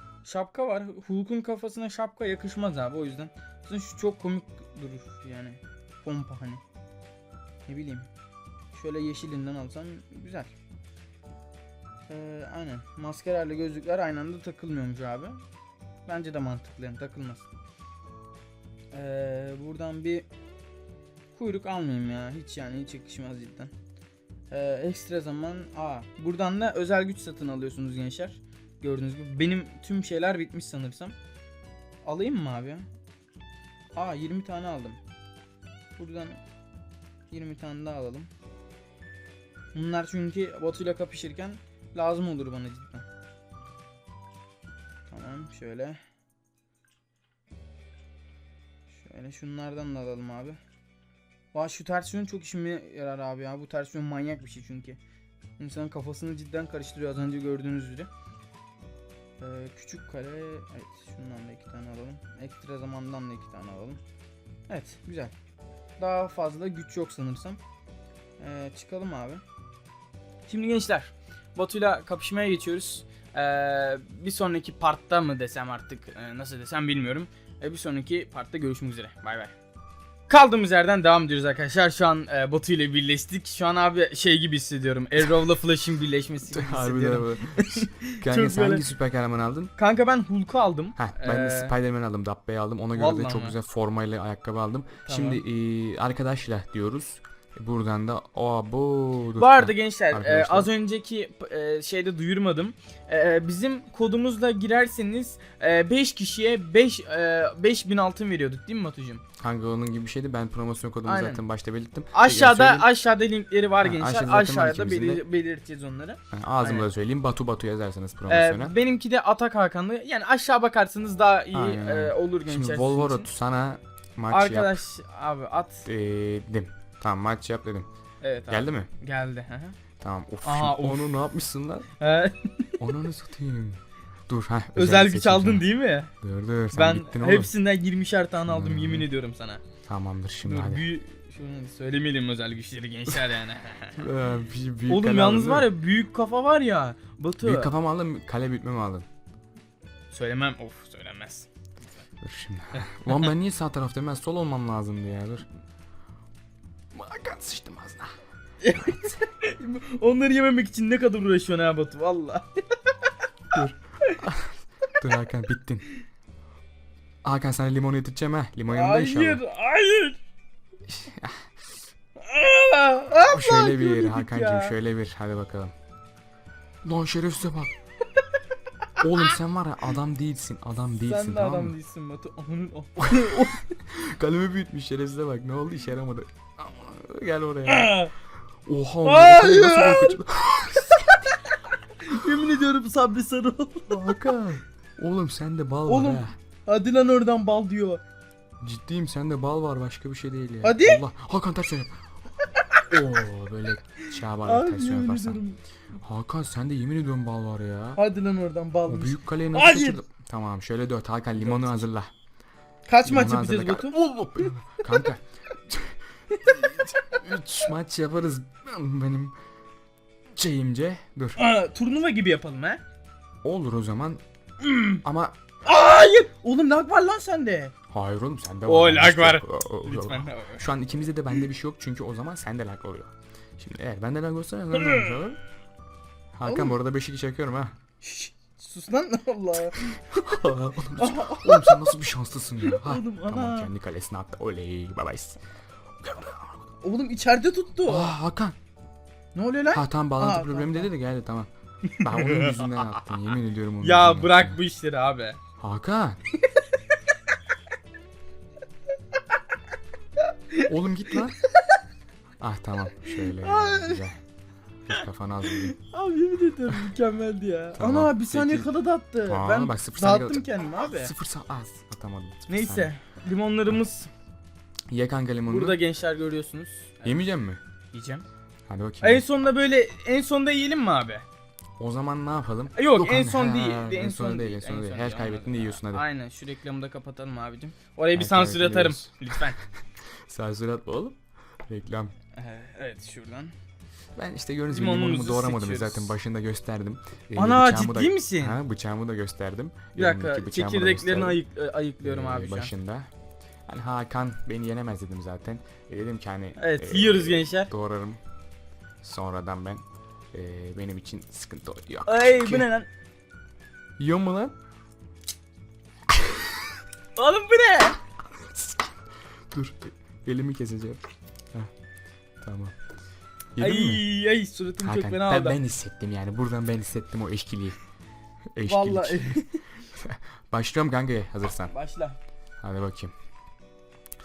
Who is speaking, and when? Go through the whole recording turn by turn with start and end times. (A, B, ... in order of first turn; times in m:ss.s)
0:00.2-0:06.6 A
0:07.7-0:08.1 A
0:08.7-0:10.6 A
0:12.1-0:15.4 A
0:16.1-0:17.5 A
0:18.9-0:20.3 A
0:21.3-0:23.7 A
0:24.5-0:31.1 A
0:32.0-0:32.8 A
0:33.9-0:35.0 A
0:36.0-0:36.4 A
0:37.3-0:38.3 A
0:39.7-0:43.0 A
0:45.1-0:46.0 A
0:48.9-0:50.6 A
0:51.5-0:55.0 A
0:55.6-0:58.1 A
0:59.4-1:04.0 A
1:04.7-1:05.3 A
1:06.0-1:07.6 A
1:08.4-1:09.4 A
1:10.5-1:19.5 A
1:20.3-1:28.8 A
1:26.5-1:29.7 B
1:29.8-1:31.7 A
1:31.0-1:40.7 B
1:32.9-1:33.6 A
1:35.0-1:35.4 A
1:39.4-1:49.2 A
1:49.4-1:52.9 B
1:51.0-1:51.4 A
1:52.1-1:56.9 A
1:53.8-1:55.2 B
1:56.3-1:58.7 B
1:58.3-2:03.3 A
2:01.5-2:04.8 B
2:04.3-2:05.9 A
2:05.8-2:07.9 B
2:08.2-2:09.8 A
2:08.5-2:08.9 B
2:10.0-2:11.9 B
2:10.4-2:11.1 A
2:12.0-2:12.7 A
2:12.8-2:15.7 B
2:14.7-2:16.1 A
2:16.2-2:17.5 B
2:16.7-2:19.6 A
2:18.4-2:19.1 B
2:19.8-2:20.9 B
2:20.4-2:24.0 A
2:24.0-2:25.7 B
2:24.9-2:27.7 A
2:27.4-2:29.0 B
2:30.1-2:31.5 A
2:32.2-2:35.4 B
2:32.7-2:33.3 A
2:36.9-2:38.1 B
2:38.6-2:42.8 A
2:38.8-2:39.2 B
2:43.5-2:45.9 B
2:47.2-2:49.4 B
2:48.7-2:50.2 A
2:50.9-2:51.4 B
2:52.2-2:54.8 A
2:53.3-2:55.7 B
2:56.8-2:57.7 B
2:59.0-3:01.7 B
3:01.0-3:03.8 A
3:03.0-3:08.1 B
3:07.7-3:08.1 A
3:08.6-3:11.3 B
3:09.0-3:10.2 A
3:12.0-3:14.1 A
3:13.9-3:16.3 B
3:15.9-3:18.0 A
3:18.6-3:22.1 B
3:20.6-3:21.0 A
3:22.5-3:22.8 A
3:22.9-3:25.4 B
3:24.4-3:25.6 A
3:26.0-3:28.0 B
3:28.0-3:30.0 A
3:28.8-3:32.1 B
3:31.4-3:31.7 A
3:32.9-3:35.0 A
3:33.0-3:39.4 B
3:36.3-3:36.6 A
3:40.4-3:41.4 B
3:41.4-3:42.8 A
3:43.4-3:44.2 B
3:44.6-3:45.0 A
3:44.9-3:45.4 B
3:45.6-3:47.7 A
3:47.9-3:55.4 B
3:48.6-3:50.7 A
3:54.8-3:55.1 A
3:56.3-3:57.8 B
3:56.4-3:56.7 A
3:58.0-4:00.0 A
3:59.9-4:05.4 B
4:01.0-4:01.8 A
4:02.6-4:03.7 A
4:06.0-4:06.5 B
4:06.8-4:08.1 A
4:07.8-4:08.6 B
4:09.3-4:10.9 A
4:09.7-4:14.6 B
4:11.9-4:13.0 A
4:13.8-4:15.4 A
4:15.6-4:16.2 B
4:20.5-4:21.6 A
4:20.6-4:21.4 B
4:22.4-4:24.2 B
4:23.1-4:24.0 A
4:24.9-4:25.7 B
4:25.5-4:31.1 A
4:27.8-4:28.7 B
4:29.2-4:32.9 B
4:32.5-4:34.1 A
4:34.9-4:35.8 B
4:35.5-4:37.2 A
4:37.0-4:37.6 B
4:37.9-4:38.2 A
4:38.7-4:39.2 B
4:39.0-4:41.2 A
4:41.8-4:46.0 B
4:42.7-4:49.6 A
4:48.1-4:49.4 B
4:50.3-4:52.1 B
4:52.3-4:53.5 A
4:54.1-5:01.4 B
4:54.7-4:56.2 A
4:57.3-4:58.6 A
4:59.9-5:02.7 A
5:02.0-5:03.1 B
5:03.7-5:08.2 B
5:06.6-5:07.7 A
5:09.0-5:12.7 B
5:12.0-5:12.9 A
5:14.0-5:14.5 B
5:17.2-5:18.0 A
5:18.4-5:18.9 B
5:19.5-5:21.0 B
5:22.4-5:22.7 B
5:23.5-5:24.0 B
5:23.6-5:25.6 A
5:24.8-5:27.8 B
5:28.6-5:29.4 B
5:28.7-5:29.6 A
5:30.0-5:31.7 B
5:31.7-5:32.2 A
5:32.6-5:33.1 B